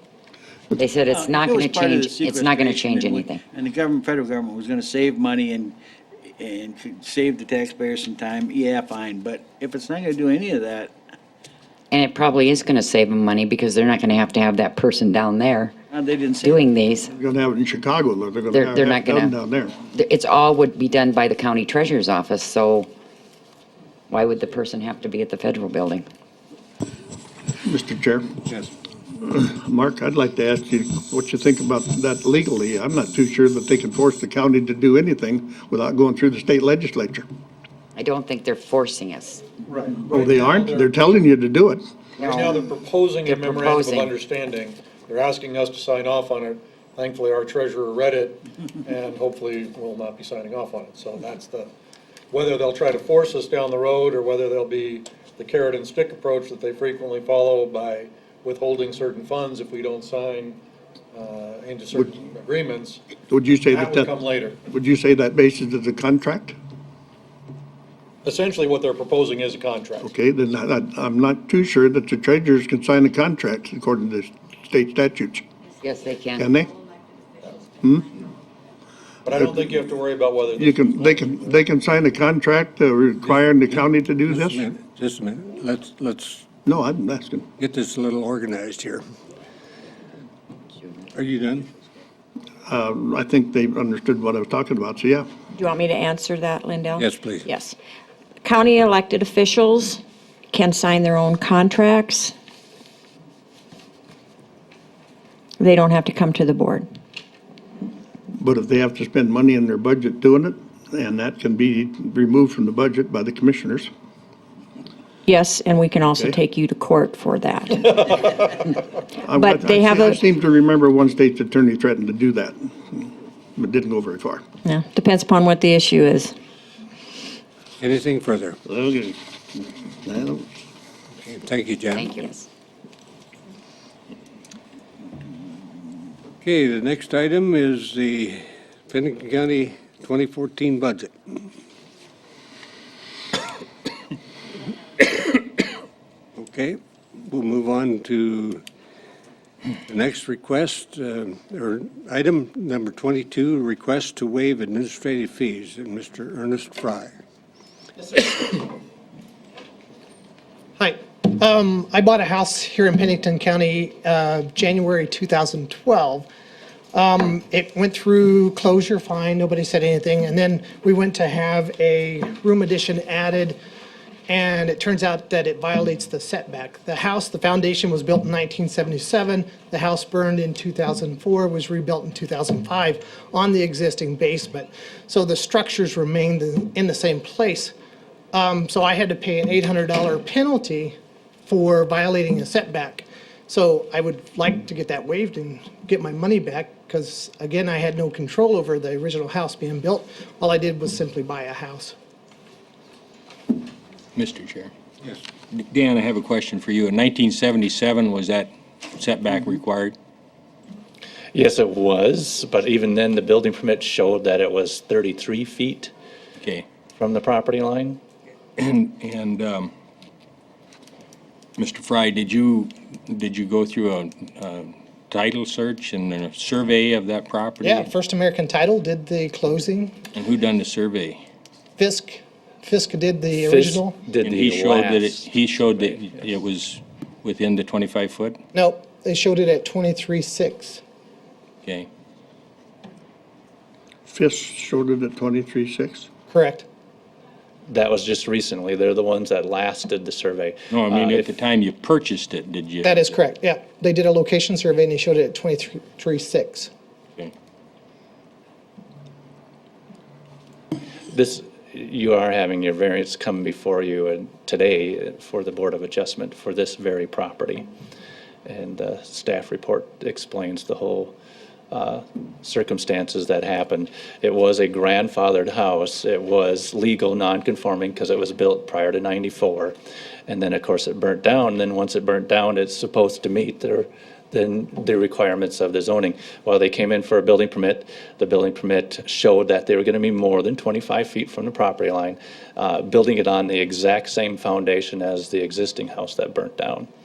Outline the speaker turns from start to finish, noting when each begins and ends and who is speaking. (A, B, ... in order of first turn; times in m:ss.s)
0:00.7-0:03.4 A
0:01.0-0:05.8 B
0:06.4-0:10.9 B
0:11.9-0:15.7 A
0:15.9-0:16.7 B
0:16.4-0:17.1 A
0:17.1-0:19.8 C
0:18.5-0:19.3 A
0:19.9-0:22.9 A
0:24.1-0:26.0 A
0:27.6-0:28.3 C
0:29.1-0:37.3 C
0:38.0-0:39.5 A
0:39.7-0:41.1 D
0:40.0-0:41.8 C
0:42.2-0:51.7 D
0:42.2-0:42.6 A
0:43.2-0:44.1 A
0:52.3-1:00.6 D
1:01.1-1:03.0 D
1:03.3-1:04.1 C
1:03.6-1:04.6 D
1:04.7-1:06.6 C
1:08.2-1:10.1 D
1:10.0-1:15.4 C
1:15.8-1:16.5 A
1:16.4-1:16.8 C
1:17.8-1:18.2 C
1:19.2-1:21.6 D
1:20.6-1:24.6 C
1:24.2-1:26.5 E
1:26.6-1:27.5 C
1:27.6-1:29.0 E
1:31.1-1:31.7 E
1:32.6-1:35.3 C
1:35.6-1:37.8 F
1:36.9-1:37.5 E
1:38.4-1:42.3 F
1:45.6-1:46.9 F
1:48.3-1:53.9 C
1:55.2-1:58.2 F
1:59.2-2:04.4 C
1:59.3-2:00.2 F
2:04.6-2:06.3 F
2:07.8-2:08.6 E
2:08.6-2:09.2 C
2:10.0-2:10.5 C
2:11.2-2:12.3 E
2:12.0-2:12.3 A
2:12.1-2:12.4 F
2:16.4-2:21.4 E
2:25.0-2:25.7 E
2:26.4-2:28.6 E
2:29.8-2:37.2 E
2:40.8-2:46.3 G
2:46.9-2:53.6 G
2:54.3-3:07.7 G
3:08.3-3:10.9 G
3:11.4-3:21.9 G
3:24.2-3:24.7 H
3:25.5-3:30.0 H
3:31.3-3:35.9 I
3:36.9-3:38.0 I
3:38.6-3:39.7 H
3:41.6-3:47.9 H
3:47.6-3:50.0 G
3:50.1-3:51.2 H
3:51.8-3:54.0 G
3:53.3-3:55.2 I
3:54.2-3:58.4 H
3:58.5-4:00.8 G
4:04.1-4:06.1 C
4:06.3-4:06.6 G
4:07.7-4:11.3 I
4:10.7-4:13.2 H
4:12.8-4:16.7 G
4:21.1-4:27.7 I
4:28.4-4:31.1 I
4:31.7-4:39.8 I
4:40.3-4:56.9 I